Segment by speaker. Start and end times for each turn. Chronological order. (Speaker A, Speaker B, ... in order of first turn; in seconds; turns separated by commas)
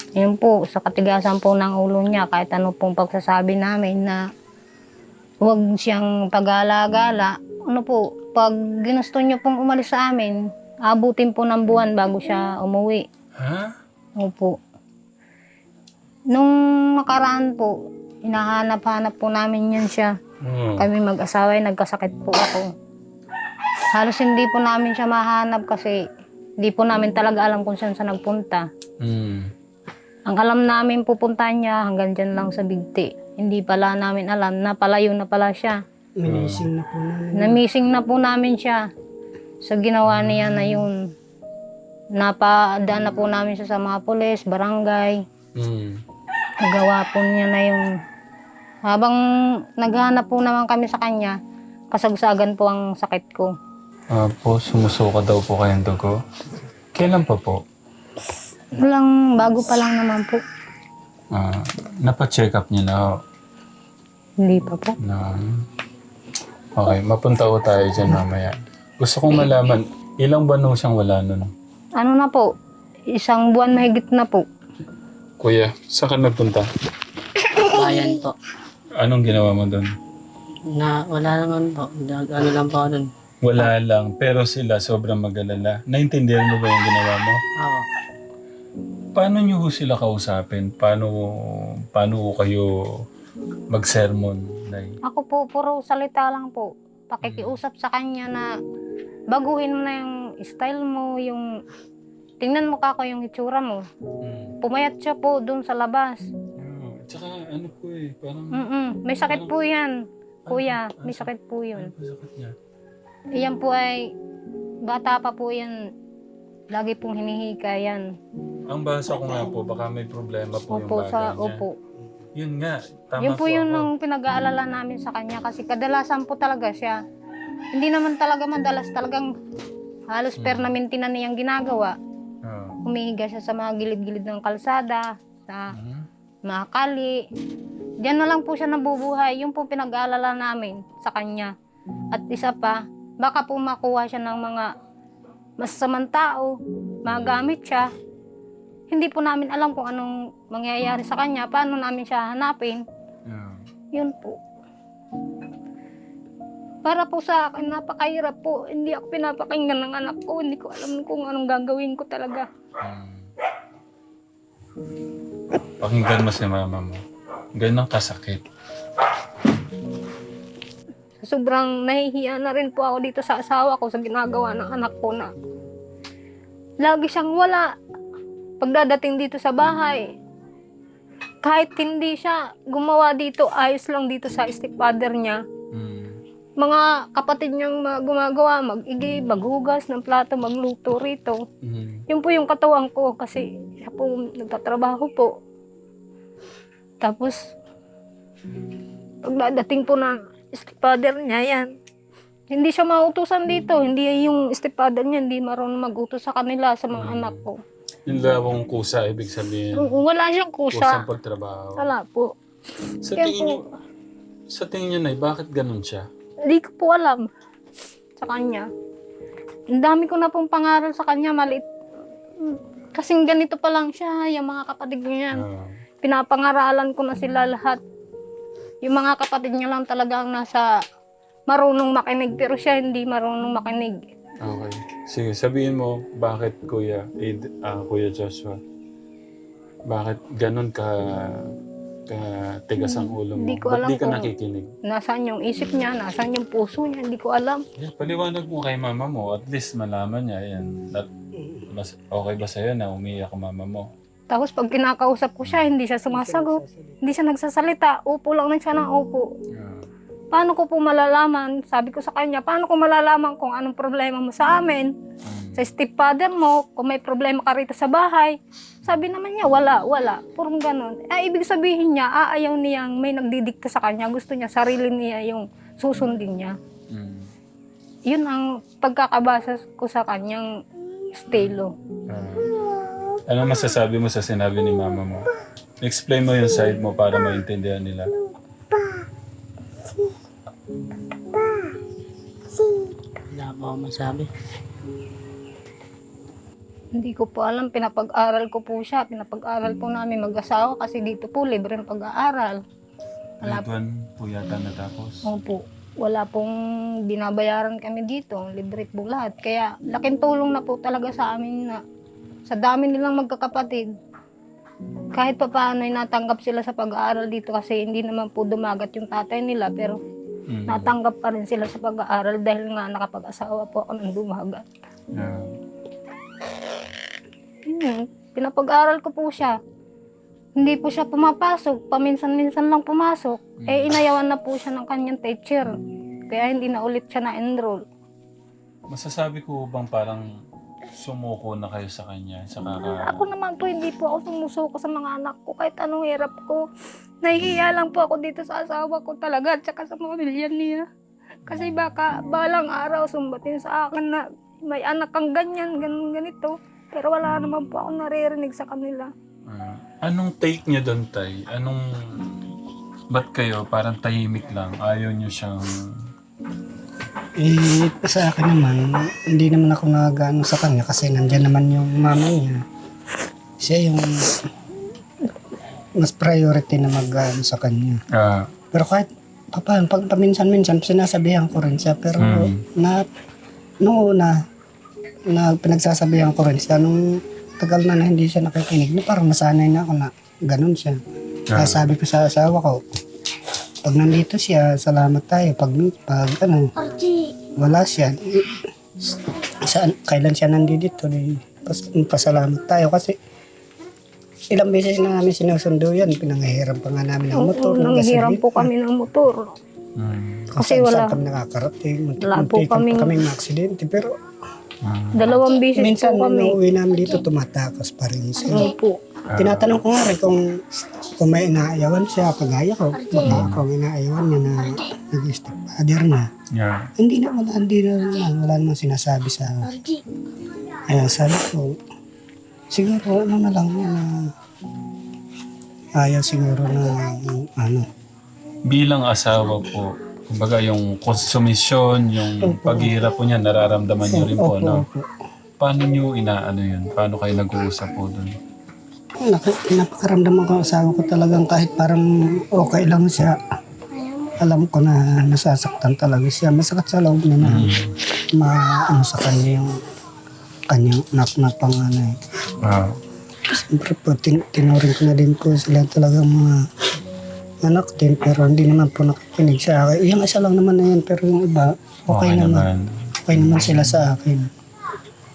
Speaker A: 0.2-4.2, Speaker A: 5.4-13.1, Speaker B: 13.4-13.8, Speaker A: 14.2-14.6, Speaker A: 16.3-17.7, Speaker A: 18.2-20.1, Speaker B: 20.4-20.9, Speaker A: 20.8-22.7, Speaker A: 23.9-26.0, Speaker A: 26.6-28.6, Speaker B: 29.0-29.5, Speaker A: 30.3-35.8, Speaker C: 36.2-37.6, Speaker B: 36.3-36.7, Speaker A: 37.4-38.8, Speaker A: 39.6-40.9, Speaker B: 40.1-40.9, Speaker A: 42.2-45.2, Speaker B: 45.6-46.0, Speaker A: 46.6-47.8, Speaker A: 48.9-49.2, Speaker A: 49.8-51.4, Speaker A: 51.9-53.5, Speaker B: 54.1-56.2, Speaker B: 57.0-57.6, Speaker A: 58.8-60.4, Speaker B: 61.3-63.2, Speaker A: 64.4-65.0, Speaker B: 65.0-65.7, Speaker B: 66.8-71.5, Speaker A: 72.0-72.5, Speaker A: 73.2-74.5, Speaker B: 75.4-76.7, Speaker D: 77.6-78.4, Speaker B: 79.0-79.9, Speaker D: 80.7-83.7, Speaker B: 83.4-87.4, Speaker D: 87.6-87.9, Speaker B: 89.2-92.8, Speaker B: 93.7-95.0, Speaker A: 95.0-98.5, Speaker B: 97.2-97.5, Speaker A: 99.3-101.5, Speaker A: 102.4-103.8, Speaker B: 104.2-104.5, Speaker A: 104.6-106.2, Speaker B: 106.6-108.6, Speaker A: 108.5-109.9, Speaker B: 110.5-112.5, Speaker A: 110.5-111.9, Speaker A: 113.4-114.1, Speaker A: 114.9-115.8, Speaker A: 116.7-118.0, Speaker B: 118.7-121.6, Speaker A: 120.7-121.7, Speaker B: 122.4-123.9, Speaker A: 123.2-127.0, Speaker A: 127.7-129.3, Speaker A: 130.1-131.9, Speaker B: 130.4-130.7, Speaker B: 132.4-132.8, Speaker A: 132.8-135.7, Speaker B: 135.7-136.1, Speaker A: 136.5-137.2, Speaker A: 138.0-141.5, Speaker A: 142.1-144.7, Speaker A: 145.6-147.9, Speaker B: 147.1-147.4, Speaker A: 148.9-152.8, Speaker B: 153.3-153.6, Speaker A: 154.0-154.4, Speaker A: 156.8-162.5, Speaker B: 162.8-163.3, Speaker B: 165.8-167.0, Speaker B: 167.6-168.4, Speaker A: 171.2-175.3, Speaker A: 176.8-177.7, Speaker A: 178.6-180.0, Speaker A: 181.4-185.4, Speaker B: 185.7-186.2, Speaker A: 186.6-191.4, Speaker B: 191.6-192.0, Speaker A: 192.1-195.3, Speaker A: 197.0-197.4, Speaker A: 199.3-201.7, Speaker A: 202.5-207.6, Speaker B: 206.9-207.4, Speaker B: 208.1-210.0, Speaker A: 209.8-211.0, Speaker B: 210.7-211.9, Speaker A: 211.8-212.3, Speaker B: 213.0-213.6, Speaker A: 213.2-213.6, Speaker B: 214.5-216.1, Speaker A: 216.5-217.3, Speaker A: 218.2-218.7, Speaker A: 219.7-221.7, Speaker A: 222.4-225.4, Speaker B: 225.3-225.8, Speaker A: 226.0-227.8, Speaker A: 228.8-230.7, Speaker A: 231.5-234.0, Speaker B: 234.4-238.6, Speaker B: 239.9-241.5, Speaker B: 242.1-244.7, Speaker A: 242.8-244.3, Speaker A: 244.9-247.6, Speaker B: 247.8-251.1, Speaker C: 251.4-251.7, Speaker B: 251.7-253.9, Speaker A: 254.3-259.3, Speaker C: 256.1-257.0, Speaker B: 259.5-259.9, Speaker A: 260.3-264.9, Speaker B: 265.2-265.6, Speaker A: 265.6-268.4, Speaker A: 268.9-276.6, Speaker B: 276.9-277.3, Speaker A: 278.1-280.5, Speaker A: 281.1-281.8, Speaker B: 282.1-282.5, Speaker B: 283.1-285.3, Speaker B: 285.8-288.1, Speaker D: 293.3-294.3, Speaker A: 297.0-302.6, Speaker A: 303.4-303.7, Speaker B: 303.4-305.2, Speaker A: 305.2-306.6, Speaker A: 307.1-311.8, Speaker A: 312.5-313.9, Speaker A: 315.1-320.0, Speaker B: 320.5-320.9, Speaker A: 320.7-324.7, Speaker B: 325.1-325.5, Speaker A: 327.7-329.6, Speaker A: 330.6-335.7, Speaker B: 333.6-334.0, Speaker A: 336.3-337.9, Speaker B: 338.9-340.3, Speaker B: 340.9-343.1, Speaker A: 343.0-346.6, Speaker A: 347.2-350.9, Speaker B: 351.5-351.9, Speaker A: 351.5-359.1, Speaker B: 359.5-362.4, Speaker B: 363.1-366.0, Speaker C: 367.4-372.6, Speaker C: 373.6-374.4, Speaker C: 376.0-378.0, Speaker B: 378.1-378.5, Speaker C: 378.7-383.1, Speaker B: 382.2-382.6, Speaker C: 383.8-384.4, Speaker C: 385.3-387.0, Speaker C: 387.6-391.0, Speaker B: 391.5-391.9, Speaker C: 391.5-392.8, Speaker C: 393.8-396.7, Speaker C: 397.5-403.2, Speaker C: 404.5-408.7, Speaker A: 407.4-409.6, Speaker B: 410.0-410.5, Speaker C: 410.5-414.1, Speaker A: 410.6-411.1, Speaker A: 412.2-413.1, Speaker B: 414.8-415.4, Speaker A: 415.1-416.6, Speaker C: 415.7-418.7, Speaker A: 418.5-419.0, Speaker B: 419.3-419.8, Speaker C: 419.4-420.4, Speaker C: 421.2-426.3, Speaker B: 423.3-423.6, Speaker B: 426.5-426.9, Speaker C: 427.0-429.9, Speaker C: 430.9-431.8, Speaker C: 432.7-434.3, Speaker C: 436.0-437.9, Speaker B: 438.7-444.9, Speaker C: 442.4-442.9, Speaker C: 444.1-445.1, Speaker B: 445.6-448.4, Speaker C: 449.2-453.4, Speaker C: 454.4-457.8, Speaker B: 457.4-457.9, Speaker C: 458.3-459.7, Speaker C: 460.7-462.2, Speaker B: 462.6-463.0, Speaker C: 463.5-466.7, Speaker C: 467.6-472.7, Speaker B: 472.1-474.1, Speaker C: 473.3-474.5